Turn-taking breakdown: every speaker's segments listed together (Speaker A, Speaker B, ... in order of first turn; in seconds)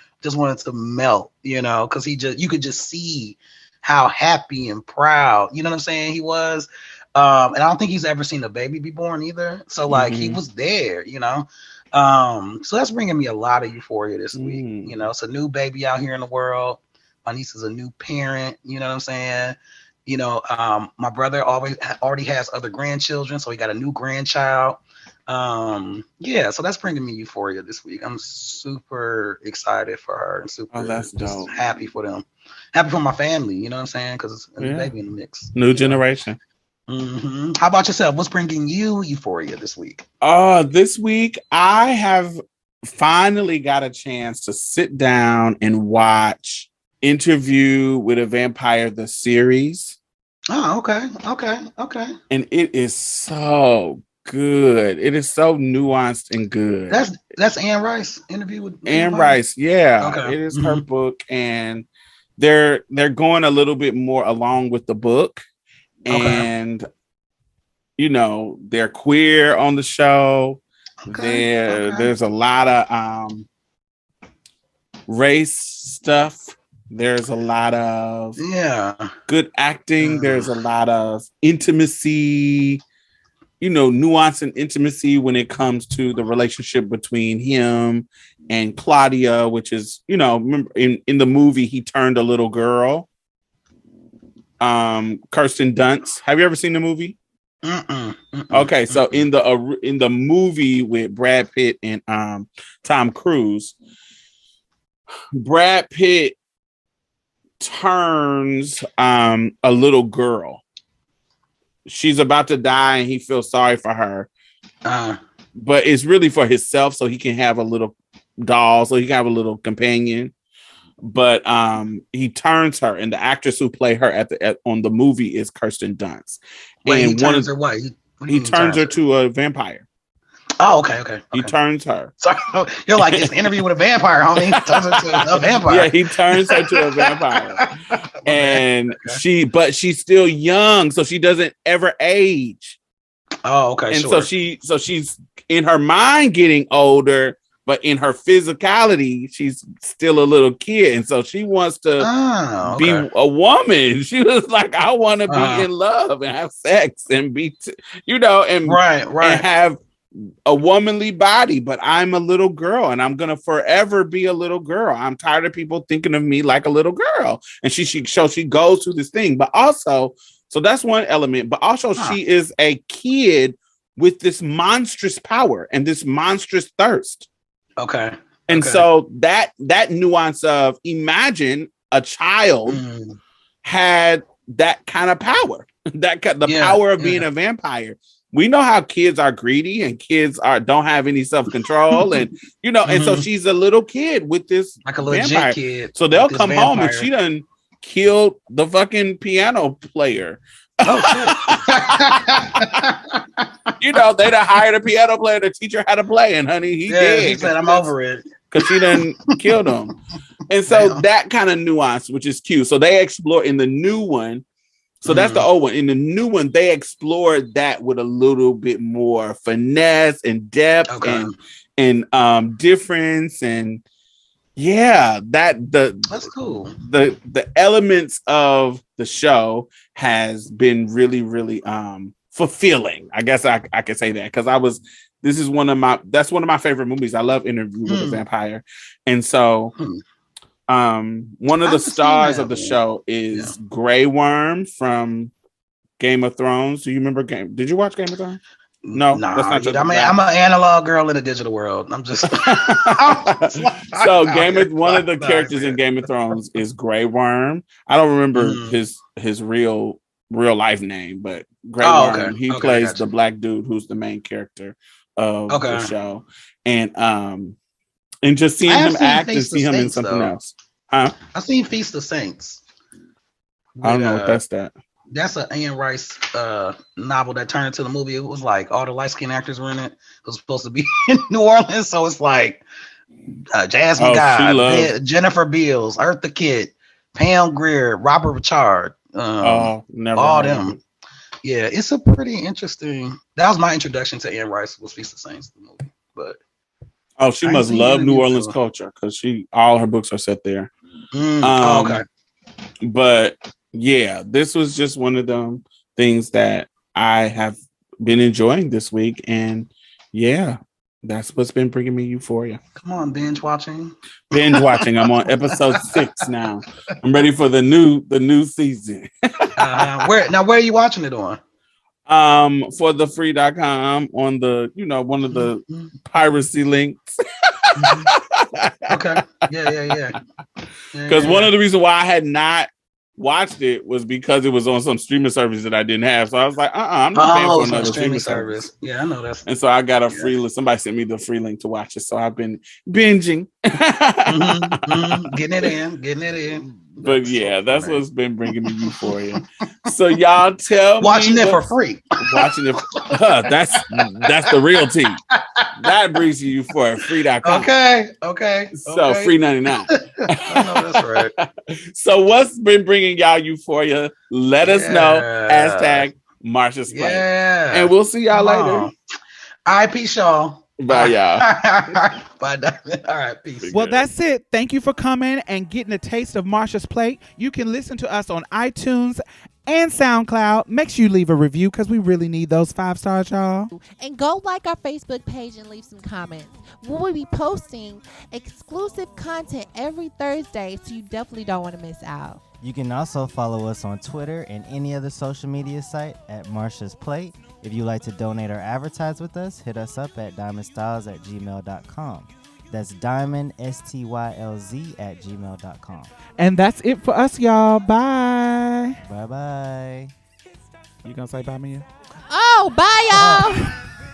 Speaker A: 0.2-36.0, 36.9-40.0, 50.5-52.2, 56.9-59.4, 60.0-60.8, 66.1-66.5, 71.0-72.1, 78.4-79.2, 80.0-80.5, 97.6-99.2, 114.8-115.2, 126.9-128.9, 130.6-131.5, 132.2-139.2, 143.4-144.3, 152.0-153.1, 155.3-155.7, 158.7-159.4, 177.8-178.8, 182.7-183.2, 186.5-187.2, 192.9-193.3, 194.9-197.1, 200.8-203.7, 206.9-209.4, 210.7-211.0, 215.1-215.5, 220.9-221.3, 226.1-226.8, 237.9-238.2, 239.8-240.0, 241.6-242.8, 248.8-255.8, 258.3-258.8, 261.8-263.1, 265.5-265.9, 268.6-270.3, 271.3-272.6, 273.8-274.4, 275.1-282.6, 283.5-290.8, 291.4-296.4, 297.4-298.6, 301.1-302.0, 312.8-316.2, 319.6-321.4, 325.3-325.9, 327.8-328.1, 328.9-330.2, 330.9-331.5, 337.1-339.5, 344.3-349.9, 351.0-352.2, 352.8-353.2, 354.0-354.6, 355.3-355.7, 357.4-359.4, 359.9-361.3, 364.6-366.1, 366.9-368.9, 369.7-373.7
Speaker B: 9.9-10.4, 14.4-15.0, 30.7-31.5, 34.6-34.9, 35.5-36.4, 40.2-50.0, 52.3-57.0, 58.9-61.9, 62.4-65.4, 66.0-66.9, 68.0-73.5, 75.1-78.4, 79.3-82.8, 83.6-93.1, 94.6-97.2, 98.5-103.8, 105.3-106.4, 107.6-110.6, 111.9-114.3, 115.6-120.3, 121.0-127.5, 128.3-129.9, 131.3-132.1, 133.0-133.3, 134.5-137.7, 138.2-142.8, 143.9-152.1, 152.6-177.3, 178.5-182.8, 183.6-202.8, 203.8-207.9, 208.5-209.9, 210.5-214.4, 215.0-223.8, 224.6-226.2, 226.8-239.7, 240.7-245.3, 246.0-248.4, 248.9-250.2, 252.3-267.6, 268.2-271.2, 273.8-274.7, 284.0-284.9, 289.4-290.8, 297.2-300.7, 301.4-302.0, 302.8-312.6, 314.3-320.1, 322.1-329.4, 331.1-338.7, 339.5-345.2, 347.0-351.7, 352.2-355.2, 355.8-357.7, 358.8-368.9, 370.8-371.5, 373.6-374.1
Speaker C: 373.7-383.8, 406.4-409.0, 411.0-411.9, 413.1-413.7
Speaker D: 384.0-392.4, 412.3-413.7
Speaker E: 392.6-406.1, 409.1-410.1